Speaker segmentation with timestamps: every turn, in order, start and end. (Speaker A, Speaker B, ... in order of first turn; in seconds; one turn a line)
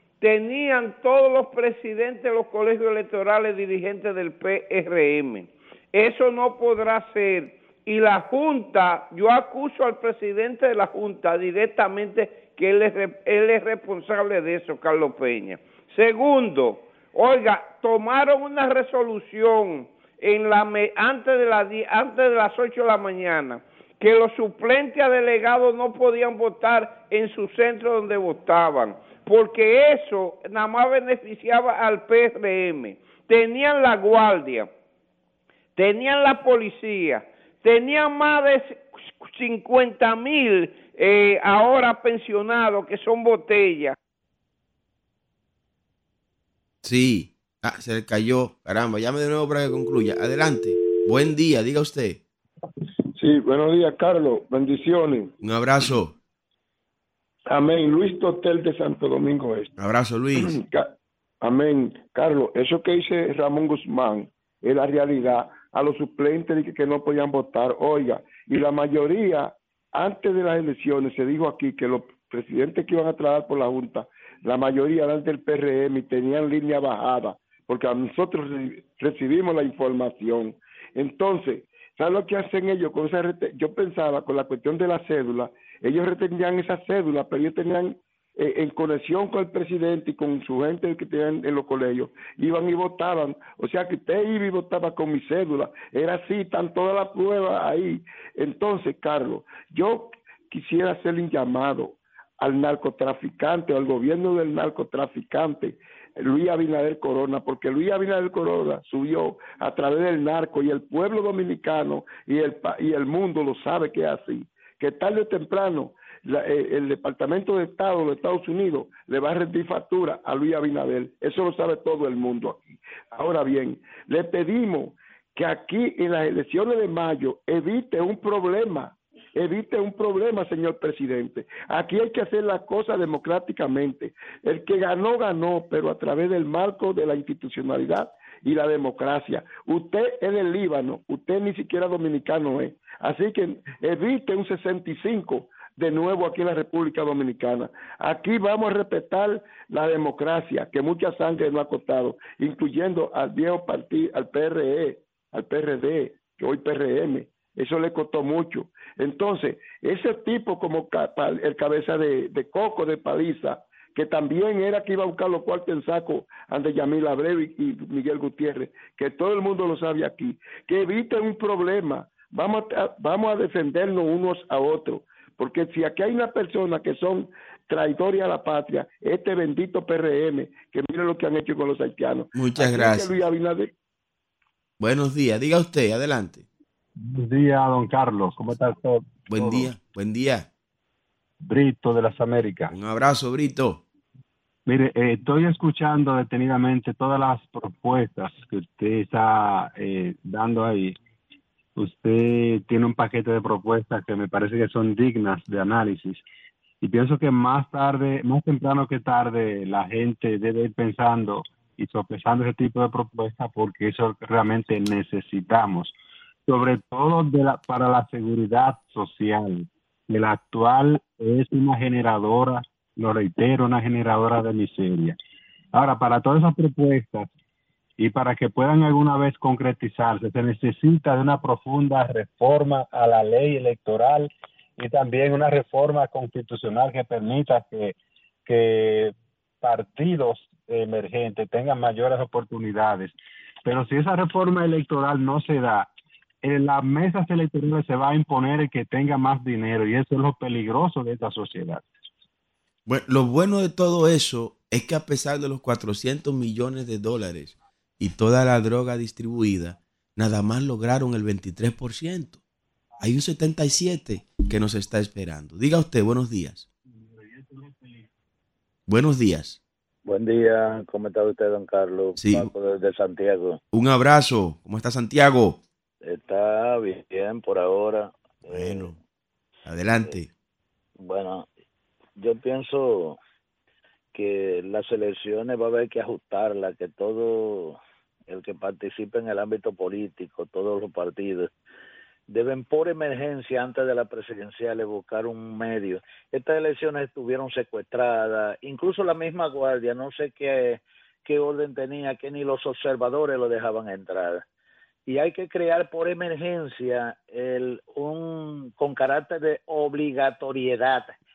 Speaker A: 0.2-34.7
Speaker A: 35.8-44.0
Speaker B: 46.8-52.2
Speaker C: 53.2-55.3
Speaker B: 55.4-56.1
Speaker C: 57.5-59.7
Speaker B: 59.8-60.6
Speaker C: 60.4-183.7
Speaker B: 182.3-183.2
Speaker B: 184.8-186.4
Speaker D: 187.0-189.7
Speaker B: 189.3-190.5
Speaker D: 191.4-192.7
Speaker B: 192.7-193.8
Speaker D: 194.7-201.0
Speaker D: 201.8-206.2
Speaker D: 206.8-216.0
Speaker D: 216.5-225.2
Speaker D: 225.7-227.3
Speaker D: 228.0-245.9
Speaker D: 246.4-251.8
Speaker B: 252.9-262.4
Speaker B: 263.0-266.7
Speaker D: 267.2-268.1
Speaker B: 268.9-269.6
Speaker E: 270.1-273.6
Speaker B: 272.2-272.5
Speaker B: 273.7-275.6
Speaker E: 276.0-278.9
Speaker B: 278.5-278.9
Speaker B: 279.7-280.3
Speaker E: 281.0-281.5
Speaker E: 282.2-283.2
Speaker E: 284.1-291.5
Speaker E: 292.3-304.4
Speaker E: 305.1-311.2